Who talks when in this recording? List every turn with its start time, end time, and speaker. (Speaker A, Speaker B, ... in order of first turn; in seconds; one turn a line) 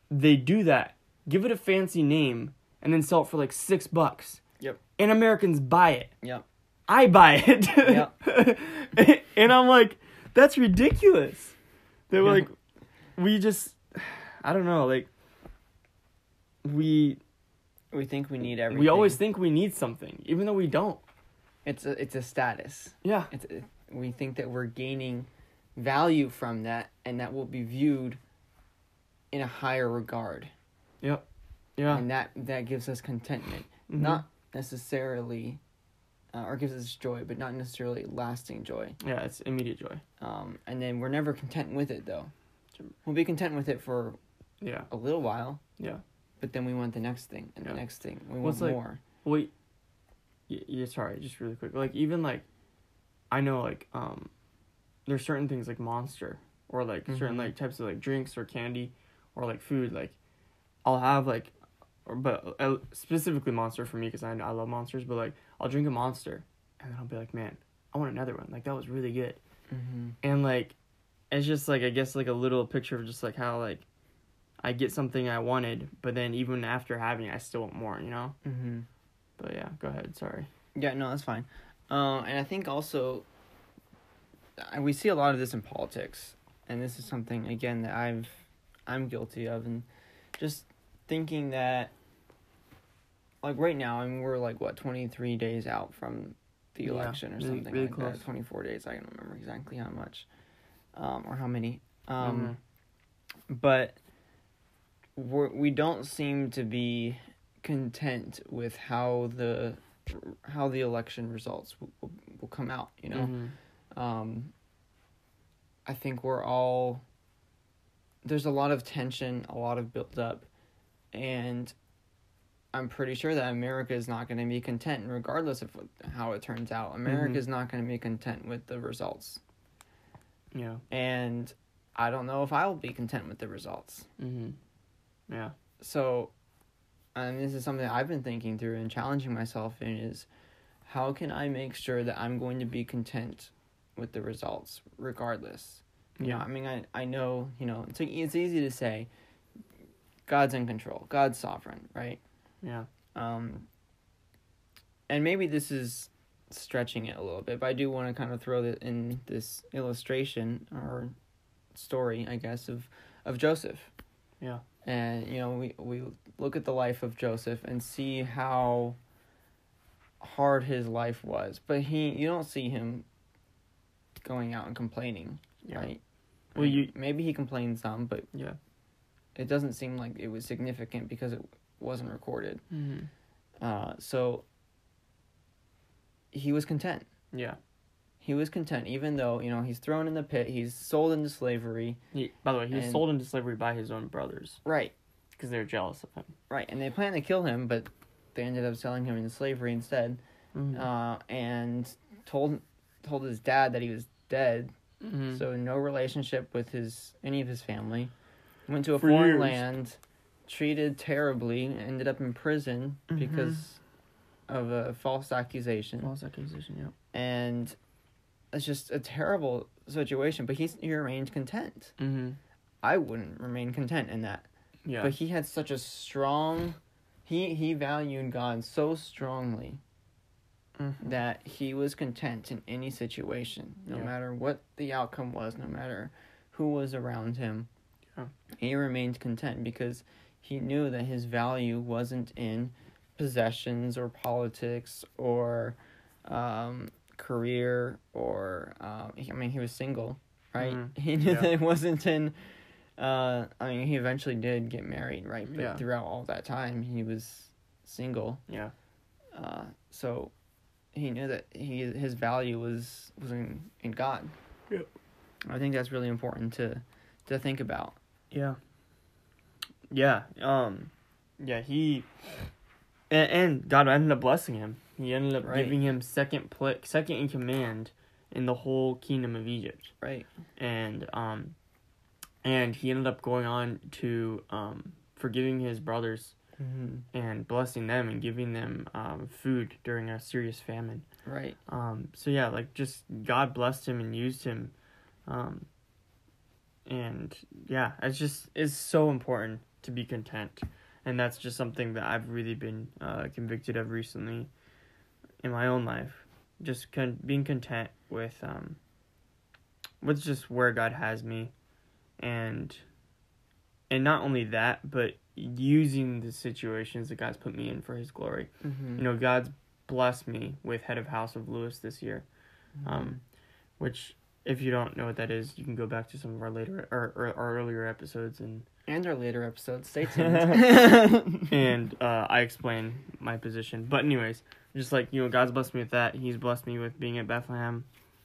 Speaker A: 0.1-4.4
Speaker A: 5.0-6.1
Speaker A: 6.9-11.6
Speaker B: 7.8-8.1
Speaker A: 12.1-12.5
Speaker A: 13.2-15.1
Speaker A: 16.6-17.2
Speaker B: 17.9-19.2
Speaker A: 18.7-21.0
Speaker B: 21.6-28.2
Speaker A: 23.0-23.3
Speaker B: 29.3-30.5
Speaker A: 31.8-32.0
Speaker B: 31.9-35.6
Speaker A: 33.9-34.2
Speaker B: 36.3-39.0
Speaker A: 39.0-40.0
Speaker B: 40.2-42.3
Speaker B: 43.0-44.2
Speaker A: 44.6-44.9
Speaker B: 44.9-45.6
Speaker B: 46.4-49.0
Speaker A: 48.4-49.5
Speaker A: 50.5-52.5
Speaker A: 53.3-54.3
Speaker A: 55.1-60.2
Speaker B: 57.1-57.5
Speaker A: 60.8-61.5
Speaker A: 62.1-69.4
Speaker B: 69.7-70.2
Speaker A: 70.2-70.8
Speaker A: 71.3-73.8
Speaker A: 74.6-78.4
Speaker B: 78.4-78.9
Speaker A: 79.4-80.5
Speaker B: 80.8-83.3
Speaker B: 84.6-89.9
Speaker B: 90.4-91.9
Speaker B: 93.4-100.3
Speaker A: 96.8-98.2
Speaker B: 100.9-102.6
Speaker A: 102.2-102.6
Speaker B: 103.5-104.0
Speaker B: 105.2-113.4
Speaker A: 113.1-113.5
Speaker B: 113.9-114.5
Speaker B: 115.9-117.0
Speaker B: 118.2-120.5
Speaker B: 121.1-121.7
Speaker B: 122.7-129.4
Speaker A: 127.1-127.4
Speaker A: 130.5-130.8
Speaker B: 130.9-134.1
Speaker A: 134.2-134.6
Speaker A: 135.3-135.5
Speaker B: 135.8-136.3
Speaker B: 137.2-140.3
Speaker B: 140.9-149.1
Speaker A: 146.2-146.4
Speaker B: 150.3-152.2
Speaker A: 152.6-152.9
Speaker B: 153.2-153.7
Speaker B: 155.1-161.1
Speaker B: 161.7-163.9
Speaker B: 164.8-169.0
Speaker B: 170.2-173.1
Speaker B: 174.2-176.0
Speaker A: 175.6-175.9
Speaker A: 176.6-176.9
Speaker B: 176.6-178.3
Speaker A: 178.3-178.6
Speaker B: 179.4-182.6
Speaker A: 182.7-183.1
Speaker B: 183.6-184.4
Speaker B: 186.3-187.1
Speaker A: 187.3-187.6
Speaker B: 188.2-192.0
Speaker A: 192.1-194.6
Speaker B: 192.7-193.1
Speaker B: 194.7-194.9
Speaker A: 195.4-196.3
Speaker B: 196.5-200.2
Speaker A: 200.6-200.9
Speaker B: 200.7-204.7
Speaker A: 205.0-205.4
Speaker B: 205.3-208.1
Speaker B: 208.7-213.8
Speaker A: 209.0-209.6
Speaker A: 213.1-213.6
Speaker B: 214.5-216.1
Speaker A: 216.0-216.9
Speaker B: 217.1-217.8
Speaker B: 218.5-221.9
Speaker A: 222.0-222.4
Speaker B: 222.8-224.5
Speaker A: 224.9-225.1
Speaker B: 225.0-229.8
Speaker A: 230.8-231.1
Speaker B: 231.0-237.7
Speaker B: 238.6-252.3
Speaker A: 250.6-251.5
Speaker B: 253.0-258.4
Speaker A: 255.5-255.8
Speaker A: 258.5-258.7
Speaker B: 259.4-260.3
Speaker B: 260.9-264.3
Speaker B: 265.5-268.0
Speaker A: 268.3-268.6
Speaker A: 269.9-272.1
Speaker A: 273.1-279.9
Speaker B: 275.4-275.8
Speaker B: 280.0-280.3
Speaker A: 280.6-281.6
Speaker A: 282.4-286.4
Speaker B: 286.6-287.1
Speaker A: 287.1-291.1
Speaker B: 291.3-291.6
Speaker A: 291.7-294.7
Speaker A: 295.3-295.7
Speaker A: 296.9-304.5
Speaker A: 305.4-308.8
Speaker A: 310.0-311.5
Speaker A: 312.2-312.8
Speaker A: 313.9-322.3
Speaker B: 318.6-319.1
Speaker B: 322.8-323.2
Speaker A: 322.9-323.2
Speaker A: 323.8-328.7
Speaker B: 328.9-331.5
Speaker A: 330.1-337.9